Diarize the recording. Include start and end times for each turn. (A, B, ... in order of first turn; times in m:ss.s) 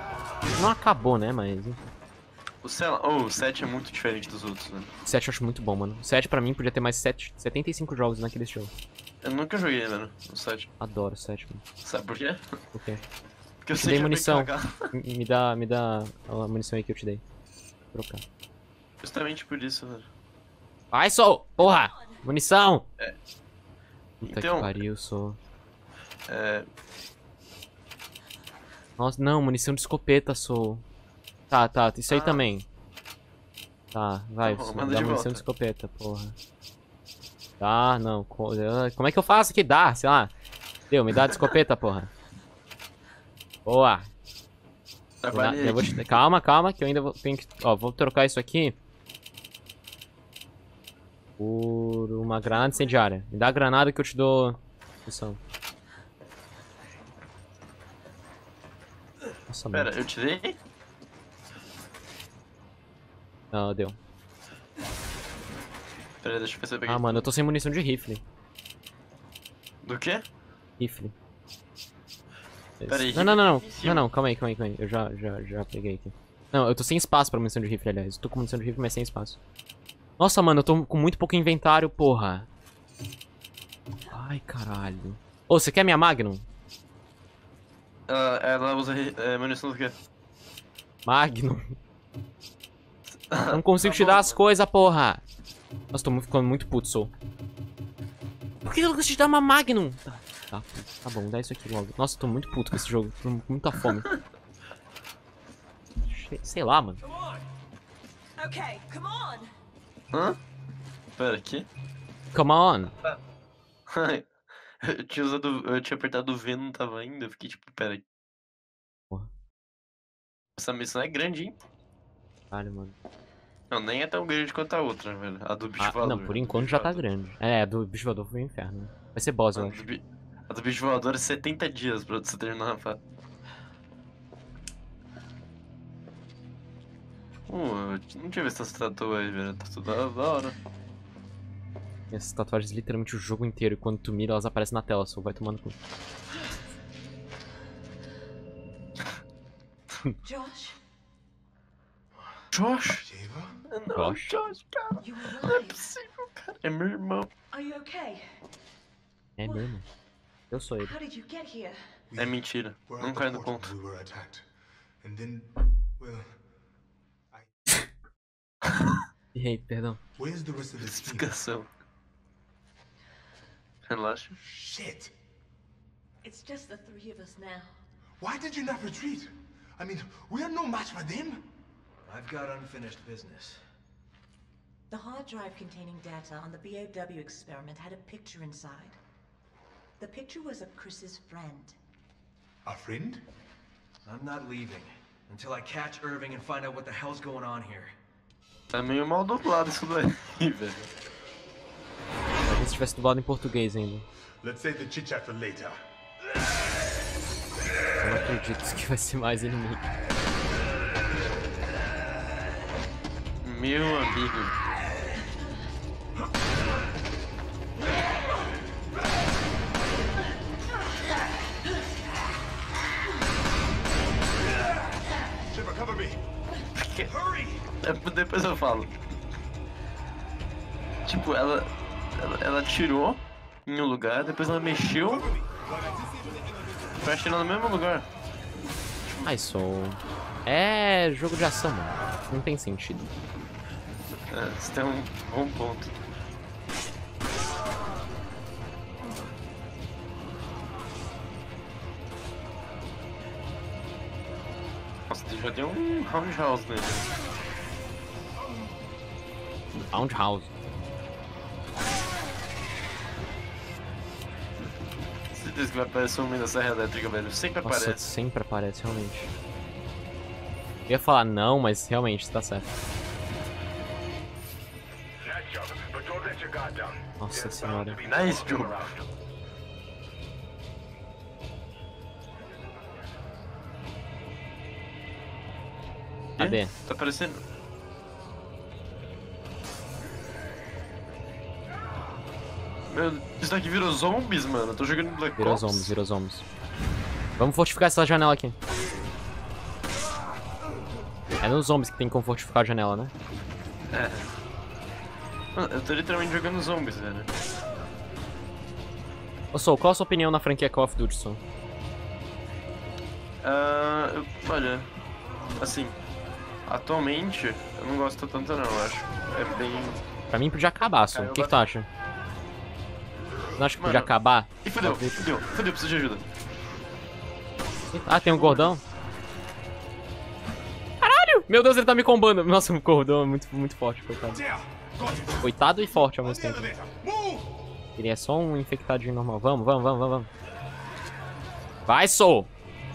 0:00.5-0:01.9 A
0:02.6-0:04.9 B
0:05.0-0:08.7 A
0:09.2-0:10.7 B
0:10.8-0:11.6 A
0:11.8-0:12.4 B
0:12.7-0:13.0 A
0:13.6-0:14.9 B
0:13.8-0:17.2 A
0:17.9-0:18.2 A
0:19.0-0:20.1 B
0:20.9-0:22.8 A
0:21.6-0:22.2 C
0:24.2-0:25.4 A
0:24.2-0:24.8 B
0:26.3-0:26.7 B
0:29.0-0:30.8 A
0:31.5-0:32.6 A
0:32.1-0:32.4 B
0:33.9-0:36.4 A
0:34.4-0:35.4 B
0:37.6-0:40.3 A
0:40.9-0:42.1 A
0:43.7-0:44.1 A
0:45.2-0:46.2 B
0:45.3-0:48.8 A
0:51.4-0:55.4 A
0:52.5-0:53.0 C
0:59.5-0:59.9 A
0:59.7-1:00.6 B
1:03.5-1:04.0 A
1:06.2-1:07.3 B
1:06.9-1:08.2 A
1:09.8-1:10.2 B
1:10.8-1:11.1 A
1:12.8-1:19.4 A
1:12.9-1:14.0 B
1:20.2-1:22.5 A
1:24.1-1:26.4 A
1:28.1-1:30.0 B
1:31.1-1:31.8 A
1:33.3-1:34.4 B
1:33.5-1:35.2 A
1:35.9-1:37.1 A
1:38.6-1:44.1 A
1:46.1-1:47.0 A
1:47.1-1:47.4 C
1:48.4-1:49.5 C
1:50.1-1:50.4 B
1:51.2-1:51.7 B
1:52.3-1:52.9 A
1:53.9-1:54.3 B
1:54.8-1:58.0 B
2:00.6-2:01.6 B
2:02.5-2:03.0 A
2:03.7-2:07.0 B
2:05.8-2:09.8 A
2:09.6-2:13.0 B
2:17.5-2:20.6 B
2:22.1-2:25.8 A
2:30.2-2:30.8 C
2:32.5-2:33.1 B
2:33.0-2:33.6 D
2:33.7-2:37.3 B
2:34.0-2:34.3 A
2:35.0-2:35.9 C
2:37.5-2:38.5 C
2:39.4-2:39.8 A
2:39.4-2:39.8 C
2:40.5-2:41.0 A
2:40.8-2:42.0 C
2:42.1-2:44.5 D
2:42.2-2:43.7 B
2:45.0-2:46.4 D
2:47.3-2:47.9 D
2:49.4-2:50.0 A
2:50.2-2:51.3 D
2:50.8-2:51.7 B
2:53.9-2:54.3 B
2:54.4-2:55.1 D
2:56.2-2:57.8 C
2:58.2-3:01.5 D
3:02.1-3:03.6 E
3:04.9-3:09.0 C
3:10.0-3:11.8 C
3:12.6-3:13.2 D
3:14.0-3:17.9 E
3:18.7-3:20.9 B
3:22.5-3:24.0 A
3:24.4-3:25.8 D
3:28.0-3:29.9 A
3:33.4-3:34.5 B
3:45.5-3:46.2 D
3:46.8-3:47.1 B
3:47.3-3:47.6 D
3:47.8-3:48.9 B
3:51.1-3:55.3 B
3:55.1-3:57.0 D
3:57.0-3:58.1 B
3:59.0-3:59.3 B
3:59.2-4:03.1 A
4:04.3-4:06.0 B
4:15.1-4:17.1 B
4:19.9-4:20.5 A
4:25.3-4:28.0 B
4:27.6-4:29.3 A
4:30.9-4:32.7 A
4:37.2-4:38.0 A
4:38.0-4:38.9 B
4:46.4-4:46.7 A
4:46.4-4:47.4 B
4:52.9-4:55.9 B
4:55.4-4:56.4 A
4:57.4-4:58.6 A
5:01.4-5:03.1 A
5:03.9-5:04.3 B
5:05.6-5:07.3 B
5:09.5-5:11.4 A
5:13.4-5:14.9 B
5:15.6-5:16.0 B
5:16.7-5:20.0 B
5:20.3-5:21.9 A
5:21.1-5:21.6 B
5:23.6-5:25.2 A
5:23.8-5:26.2 B
5:27.9-5:28.8 A
5:28.1-5:28.8 D
5:31.0-5:34.4 A
5:34.1-5:37.5 D
5:35.4-5:36.8 A
5:38.0-5:40.3 A
5:41.9-5:42.5 A